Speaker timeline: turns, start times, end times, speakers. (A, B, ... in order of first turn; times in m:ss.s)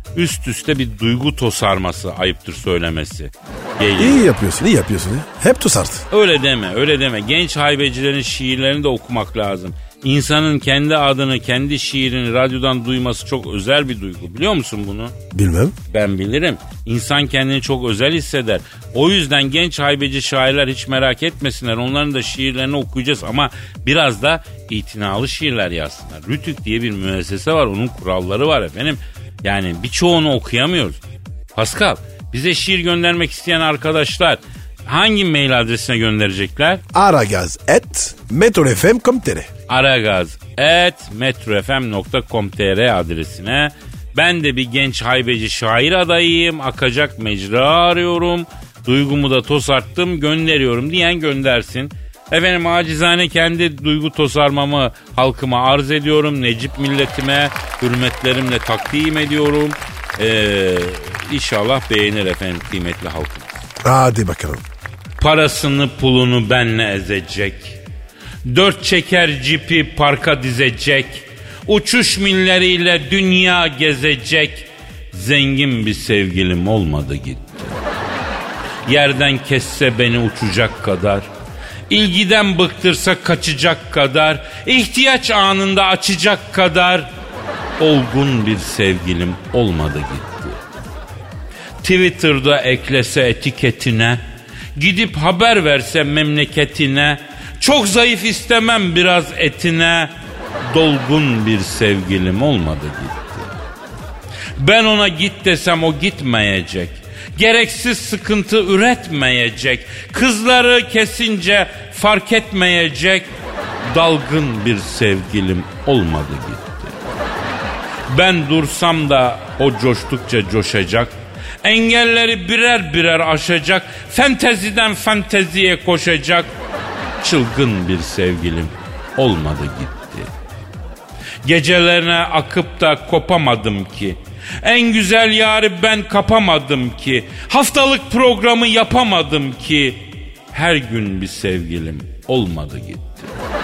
0:00.1-0:04.3 A
0:04.0-0:06.0 B
0:06.1-0:15.1 A
0:15.3-0:15.8 B
0:15.9-0:31.0 A
0:31.5-0:36.8 A
0:36.9-0:39.5 B
0:39.7-1:03.6 A
1:03.8-1:04.6 B
1:05.2-1:07.8 A
1:08.4-1:17.8 A
1:18.8-1:21.3 A
1:21.9-1:27.1 A
1:27.8-1:30.6 A
1:31.8-1:34.2 A
1:34.7-1:43.6 A
1:44.6-1:53.3 A
1:53.8-1:57.0 A
1:58.1-2:06.5 A
2:07.2-2:10.3 A
2:11.4-2:23.3 A